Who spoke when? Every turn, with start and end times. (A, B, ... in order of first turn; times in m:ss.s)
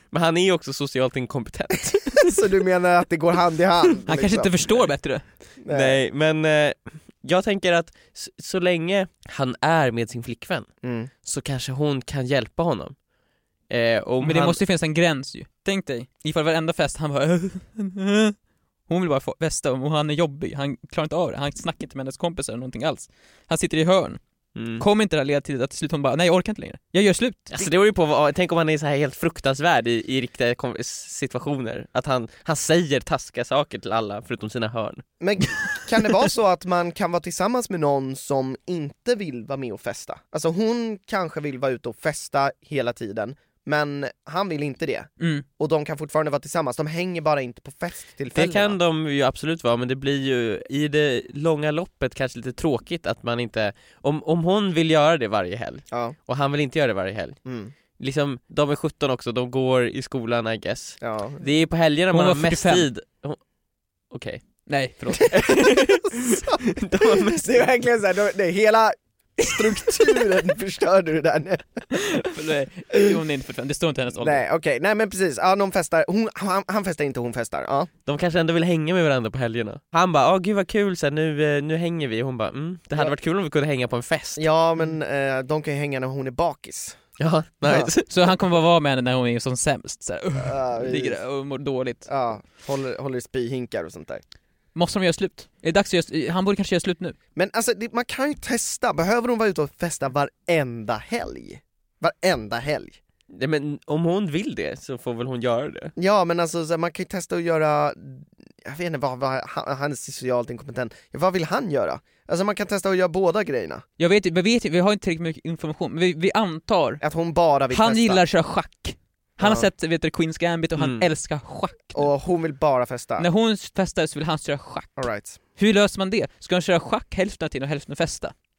0:00.1-0:02.4 A
0:02.2-0:04.9 B
0:04.0-0:05.2 C
0:05.6-0:06.0 B
0:05.7-0:10.7 A
0:10.8-0:11.1 B
0:11.2-0:13.0 A
0:13.7-0:14.6 A
0:14.2-0:18.4 C
0:18.9-0:24.2 C
0:24.5-0:24.8 A
0:24.8-0:27.5 C
0:27.5-0:35.0 A
0:35.2-0:48.8 B
0:45.2-0:45.4 C
0:48.3-0:57.4 A
0:57.4-0:57.7 B
0:58.0-1:03.4 A
1:01.0-1:01.4 B
1:02.1-1:02.9 C
1:04.1-1:04.4 A
1:04.6-1:05.3 C
1:05.1-1:07.6 A
1:05.3-1:12.2 B
1:11.9-1:14.4 C
1:14.2-1:17.9 B
1:18.0-1:24.4 A
1:24.4-1:27.0 B
1:27.2-1:28.3 A
1:27.6-1:27.9 B
1:28.1-1:32.1 C
1:30.4-1:31.2 B
1:32.0-1:34.2 B
1:34.7-1:37.2 C
1:37.4-1:43.0 B
1:43.3-1:45.9 A
1:46.0-1:53.8 B
1:54.0-1:57.0 C
1:57.0-1:58.2 B
1:57.7-2:02.1 C
1:59.4-1:59.7 B
2:00.8-2:01.0 A
2:01.9-2:03.3 B
2:03.2-2:05.0 C
2:05.0-2:05.4 B
2:05.6-2:08.3 C